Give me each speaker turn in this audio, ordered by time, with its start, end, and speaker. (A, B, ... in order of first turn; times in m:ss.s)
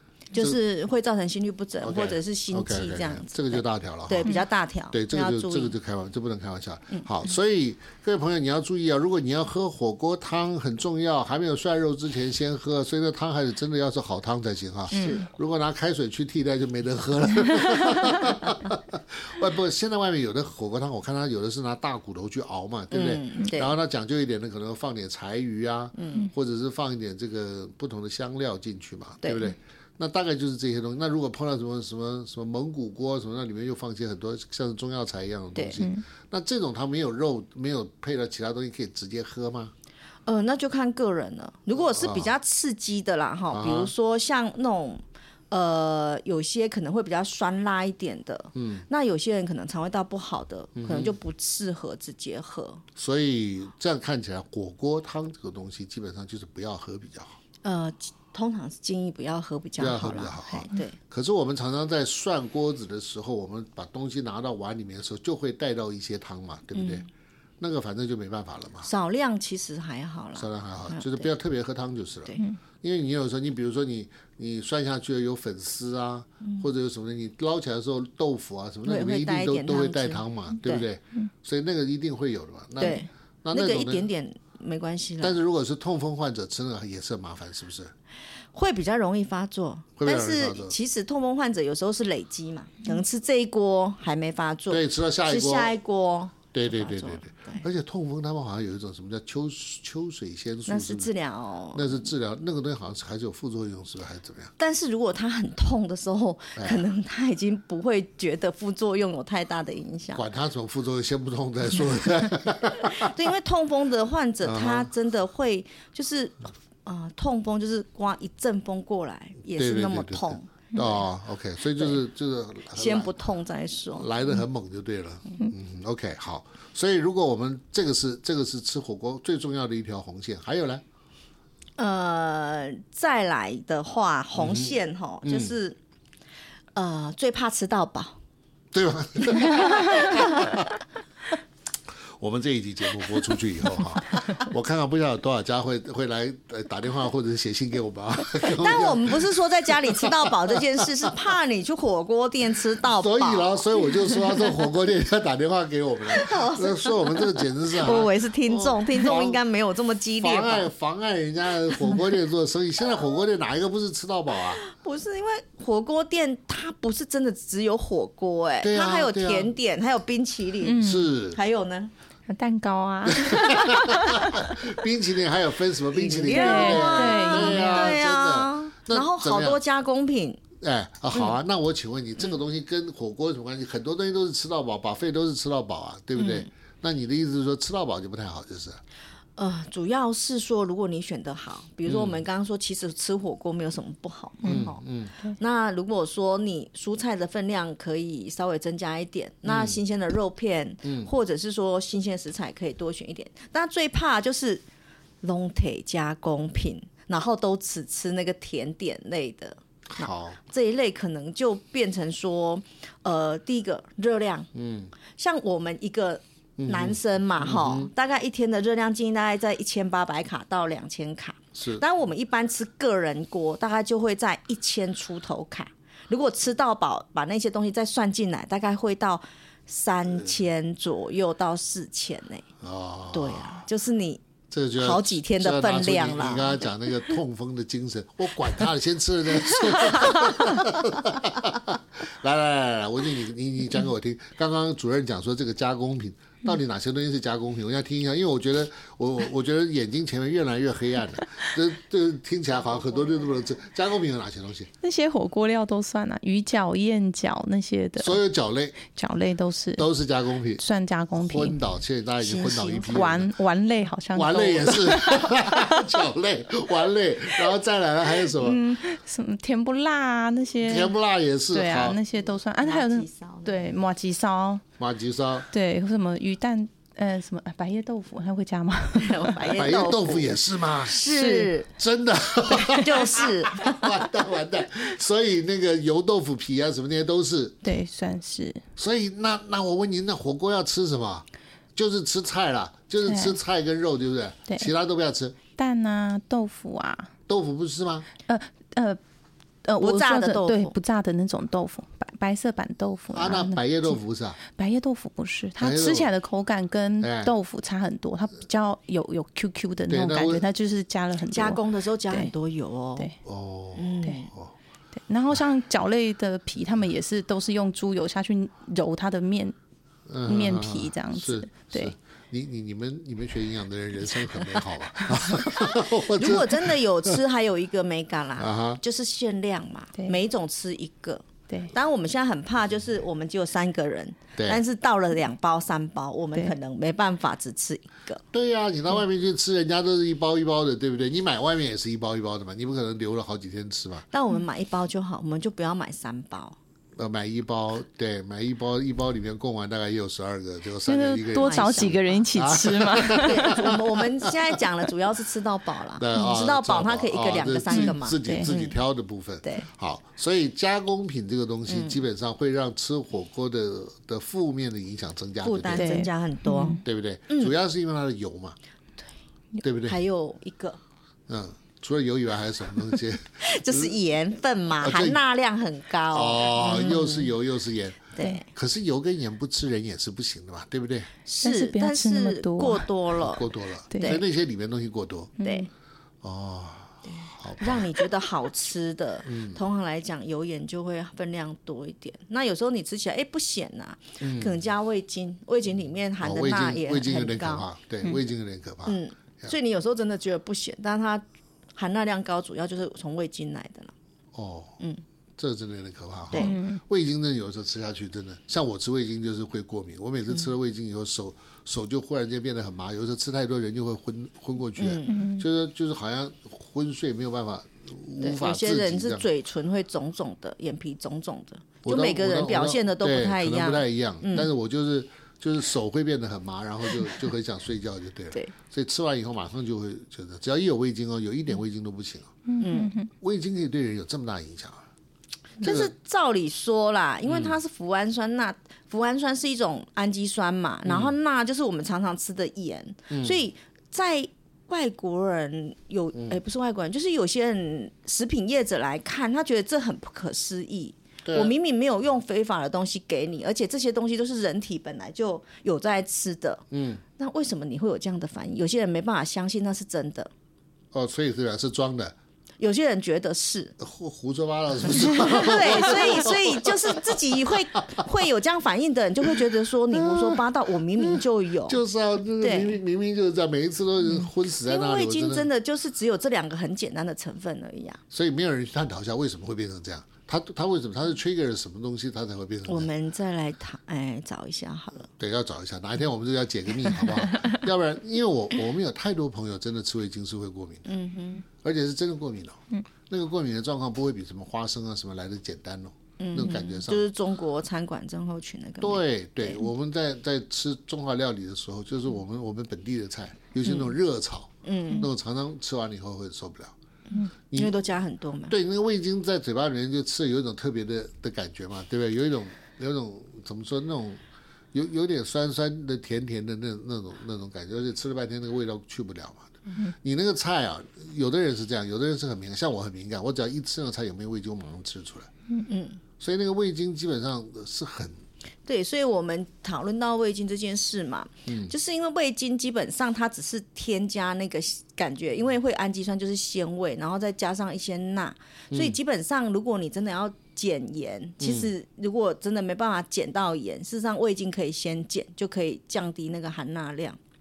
0:00.3-0:05.8 A
0:01.8-0:04.4 B
0:04.9-0:39.7 B
0:14.9-0:15.3 A
0:22.9-0:23.7 A
0:26.0-0:26.3 A
0:29.2-0:29.5 A
0:35.6-0:35.8 A
0:40.3-0:52.8 A
0:41.8-0:42.3 B
0:43.5-0:43.9 B
0:48.6-0:48.8 B
0:50.8-0:51.2 B
0:53.0-0:57.4 B
0:57.6-1:01.0 A
0:59.8-1:07.0 B
1:06.7-1:07.1 A
1:07.6-1:08.9 B
1:08.8-1:11.3 A
1:10.4-1:24.1 B
1:16.4-1:16.7 A
1:18.9-1:20.9 A
1:22.8-1:25.4 A
1:25.2-1:27.9 B
1:28.5-1:37.6 A
1:30.0-1:30.7 B
1:34.7-1:35.7 B
1:36.5-1:41.1 B
1:40.7-1:42.1 A
1:41.7-1:44.5 B
1:44.6-1:50.3 A
1:46.6-1:46.8 B
1:50.1-1:53.1 B
1:53.0-2:00.9 A
1:54.4-1:54.9 B
1:59.5-2:03.2 B
2:02.7-2:04.1 A
2:04.0-2:10.8 B
2:11.8-2:15.8 A
2:14.4-2:15.5 B
2:16.8-2:18.2 A
2:18.7-2:20.7 B
2:19.5-2:20.2 A
2:22.2-2:31.1 B
2:28.6-2:33.6 A
2:32.8-2:39.4 B
2:36.1-2:40.7 A
2:40.2-2:44.6 B
2:44.6-2:51.9 A
2:48.6-2:49.5 B
2:50.6-2:51.1 C
2:50.8-2:51.4 B
2:52.3-2:54.5 C
2:53.1-2:59.6 B
2:55.9-3:00.4 A
2:56.3-2:58.0 C
3:00.6-3:08.8 B
3:06.2-3:06.5 A
3:09.4-3:14.8 A
3:11.9-3:12.2 B
3:14.4-3:15.1 B
3:15.4-3:24.6 A
3:19.4-3:19.8 B
3:20.8-3:21.1 B
3:25.2-3:34.5 A
3:29.9-3:30.4 B
3:34.5-3:34.9 B
3:35.1-3:52.5 A
3:36.6-3:37.9 B
3:41.6-3:41.8 B
3:52.6-3:53.7 B
3:53.1-3:54.2 A
3:54.5-4:14.7 B
3:54.8-3:56.7 A
4:14.8-4:18.2 C
4:18.0-4:18.8 B
4:18.9-4:19.9 C
4:19.8-4:20.6 B
4:20.6-4:21.6 C
4:21.1-4:23.3 B
4:22.2-4:23.0 A
4:22.8-4:25.9 C
4:24.1-4:28.6 B
4:28.4-4:30.9 C
4:30.6-4:32.0 B
4:31.5-4:34.6 C
4:32.6-4:33.7 A
4:34.8-4:35.5 B
4:35.5-4:39.5 C
4:39.0-4:41.7 A
4:39.6-4:41.1 B
4:41.1-4:41.5 C
4:41.8-4:47.6 B
4:42.7-4:43.8 A
4:47.6-4:48.6 C
4:48.8-4:55.4 B
4:53.0-4:53.4 C
4:55.6-4:57.1 C
4:57.3-4:58.1 B
4:58.3-4:59.0 C
4:59.6-5:04.0 C
4:59.8-5:00.7 A
5:03.1-5:04.4 B
5:04.5-5:12.3 C
5:05.6-5:06.1 B
5:07.0-5:07.3 B
5:09.9-5:10.4 B
5:11.3-5:13.1 A
5:13.2-5:14.5 B
5:13.8-5:14.3 A
5:15.0-5:19.6 C
5:20.1-5:27.2 B
5:20.2-5:21.9 C
5:26.1-5:38.2 A
5:28.4-5:28.8 B
5:34.4-5:34.6 B
5:38.3-5:44.1 B
5:44.1-5:46.6 A
5:47.0-5:54.3 B
5:50.9-5:53.7 C
5:51.4-5:52.1 A
5:53.2-5:58.8 A
5:56.0-6:06.0 B
5:57.7-5:58.5 C
6:01.7-6:02.0 A
6:05.4-6:07.5 A
6:05.8-6:06.8 C
6:06.8-6:08.6 B
6:09.6-6:10.0 B
6:09.9-6:10.8 A
6:11.3-6:13.9 B
6:13.4-6:17.3 A
6:14.8-6:15.2 B
6:16.1-6:21.1 B
6:18.2-6:18.4 A
6:21.3-6:24.2 A
6:21.4-6:22.9 C
6:23.2-6:25.4 B
6:23.9-6:24.2 C
6:25.4-6:25.7 C
6:25.4-6:25.7 A
6:26.2-6:28.0 B
6:27.0-6:37.7 A
6:29.2-6:29.6 B
6:34.2-6:34.6 B
6:36.2-6:39.5 B
6:38.9-6:41.2 A
6:41.8-6:43.9 A
6:44.3-6:44.8 B
6:45.4-6:59.3 B
6:46.4-6:46.8 C
6:54.8-6:55.2 A
6:55.1-6:55.4 C
6:58.2-7:04.5 A
7:01.8-7:12.4 B
7:12.5-7:13.1 C
7:12.6-7:12.9 A
7:13.2-7:14.9 B
7:15.6-7:36.6 A
7:15.6-7:15.9 B
7:17.3-7:17.6 B
7:20.8-7:21.1 B
7:23.1-7:23.4 B
7:31.2-7:31.5 B
7:36.7-7:37.0 B
7:37.2-7:40.3 A
7:40.9-7:42.2 B
7:42.6-7:43.8 A
7:43.8-7:47.2 B
7:44.9-7:51.8 A
7:49.9-7:50.4 B
7:51.0-7:55.5 B
7:52.4-7:52.8 A
7:54.5-7:58.0 A
7:58.1-8:02.9 B
8:02.7-8:05.1 A
8:05.2-8:10.9 B
8:10.9-8:11.4 A
8:11.6-8:17.1 B
8:16.2-8:19.6 A
8:18.8-8:26.8 B
8:23.6-8:23.9 A
8:24.6-8:25.1 A
8:27.5-8:27.8 B
8:27.5-8:28.6 A
8:28.5-8:34.2 B
8:34.7-8:45.3 B
8:45.7-8:46.0 A
8:46.2-8:48.2 B
8:48.7-9:07.2 A
8:51.5-8:51.7 B
8:58.7-8:59.0 B
9:01.4-9:01.7 B